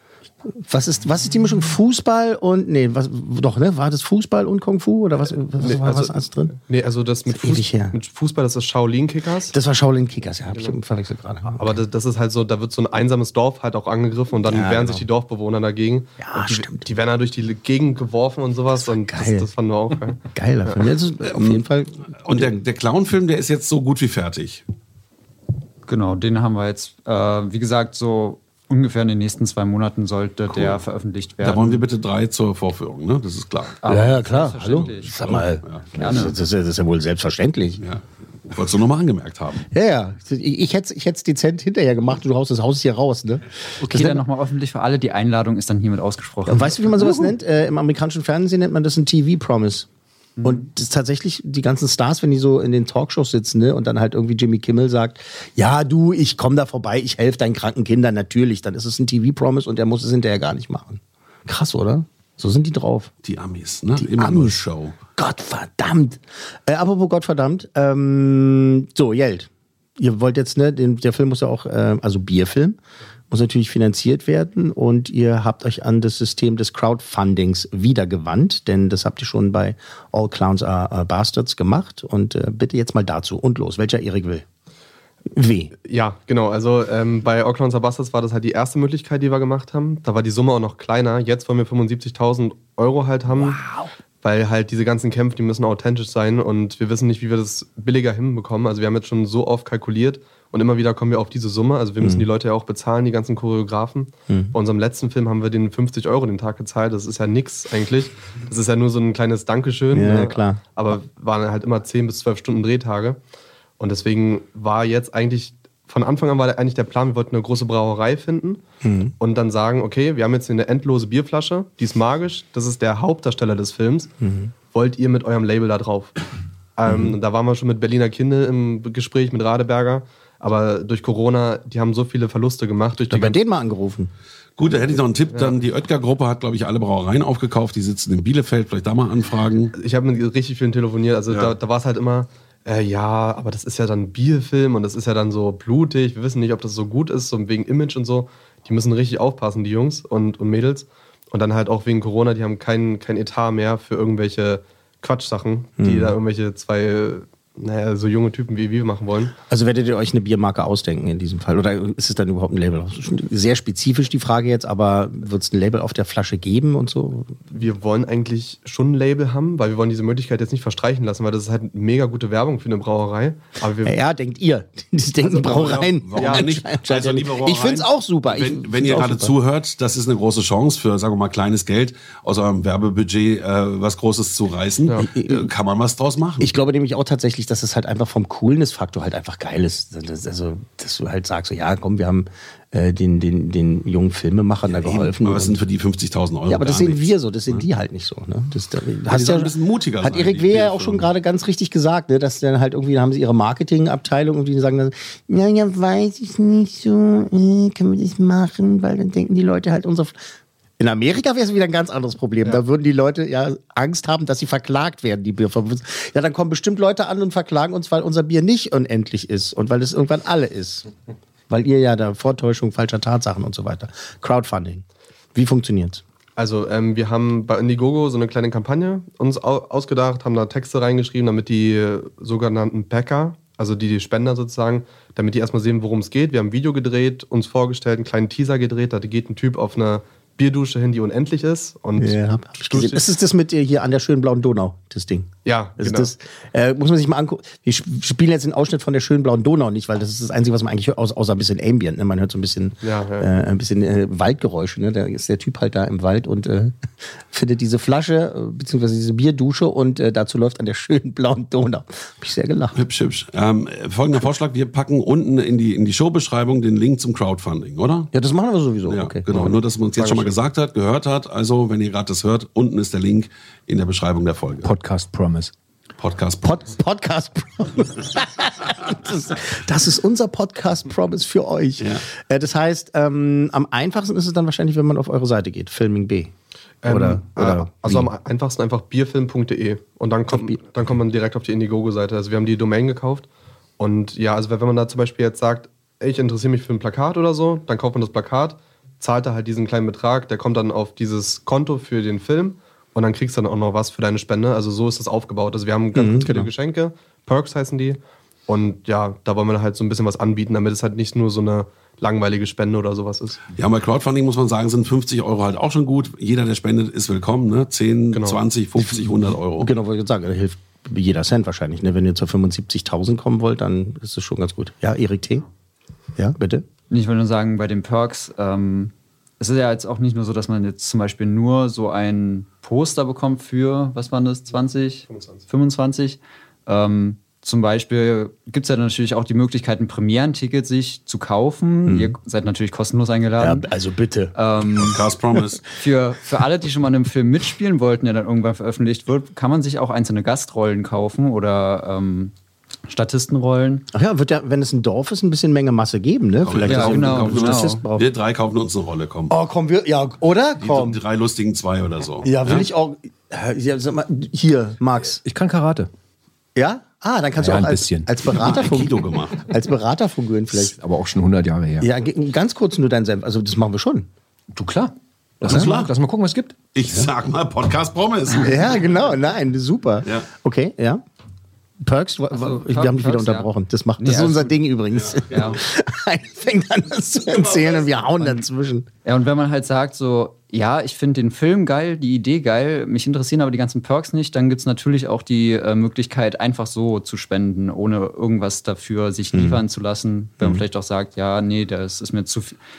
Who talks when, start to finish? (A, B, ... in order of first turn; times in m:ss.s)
0:00.4-0:06.5 A
0:05.6-0:09.5 B
0:07.3-0:07.9 A
0:09.5-0:11.8 A
0:11.6-0:20.9 B
0:14.4-0:15.0 A
0:16.2-0:16.8 A
0:18.8-0:19.5 A
0:20.3-0:22.5 A
0:21.2-0:21.6 C
0:22.2-0:24.6 C
0:25.9-0:31.8 D
0:30.5-0:30.8 C
0:31.4-0:33.8 C
0:33.8-0:35.4 D
0:33.9-0:37.8 A
0:35.1-0:35.9 C
0:36.0-0:36.4 D
0:37.8-0:39.7 C
0:39.7-0:44.2 A
0:43.8-0:47.2 D
0:46.5-0:49.9 A
0:50.4-0:50.7 D
0:50.4-1:03.1 A
1:03.2-1:05.0 C
1:04.0-1:04.6 A
1:05.1-1:12.8 A
1:13.3-1:24.4 A
1:25.3-1:25.7 A
1:25.8-1:33.6 B
1:34.2-1:53.2 B
1:44.3-1:44.5 A
1:49.9-1:50.6 A
1:53.8-1:58.6 B
1:58.8-1:59.1 A
1:59.2-2:04.1 B
2:04.2-2:04.5 A
2:04.7-2:06.1 B
2:06.8-2:13.4 B
2:06.9-2:07.2 A
2:13.1-2:14.1 A
2:14.6-2:19.7 C
2:19.8-2:39.3 B
2:35.8-2:36.2 A
2:39.5-2:47.4 A
2:47.5-2:54.0 B
2:53.8-2:59.4 A
2:55.2-3:06.5 C
2:56.1-2:56.5 B
3:05.0-3:05.5 A
3:06.4-3:15.6 A
3:14.7-3:17.6 C
3:16.5-3:30.2 A
3:19.1-3:21.1 C
3:30.8-3:40.9 A
3:41.5-3:44.8 A
3:45.4-3:46.0 A
3:46.4-4:03.0 B
4:02.0-4:16.8 A
4:05.4-4:06.1 B
4:12.8-4:13.3 B
4:17.3-4:22.8 A
4:22.8-4:28.1 C
4:28.1-4:29.5 A
4:28.9-4:34.7 C
4:29.3-4:30.4 B
4:34.6-4:35.5 E
4:36.0-4:36.7 C
4:36.4-4:46.3 A
4:46.8-4:53.3 B
4:46.8-4:48.1 A
4:50.3-4:50.6 A
4:53.8-5:13.4 B
5:05.9-5:06.5 A
5:13.5-5:19.7 C
5:18.1-5:18.4 B
5:18.8-5:25.4 A
5:26.2-5:26.6 A
5:26.9-5:43.7 D
5:35.1-5:35.4 B
5:41.8-5:42.2 A
5:43.4-5:44.3 A
5:44.3-5:45.0 D
5:44.7-5:45.6 C
5:45.7-5:52.3 D
5:52.9-5:53.8 D
5:53.9-5:58.1 A
5:56.4-5:59.3 C
5:56.6-5:57.8 D
5:59.3-6:01.0 A
6:00.6-6:02.7 C
6:02.2-6:05.2 A
6:05.2-6:05.9 E
6:06.5-6:10.8 A
6:07.4-6:08.1 E
6:08.3-6:09.5 C
6:10.5-6:11.9 E
6:11.8-6:14.1 A
6:14.5-6:16.7 E
6:15.4-6:15.9 C
6:15.5-6:15.7 A
6:16.7-6:19.0 C
6:18.4-6:21.0 A
6:21.8-6:28.8 A
6:22.3-6:24.6 D
6:25.0-6:25.6 C
6:25.3-6:25.6 D
6:27.3-6:27.9 C
6:29.0-6:42.6 D
6:39.3-6:39.6 A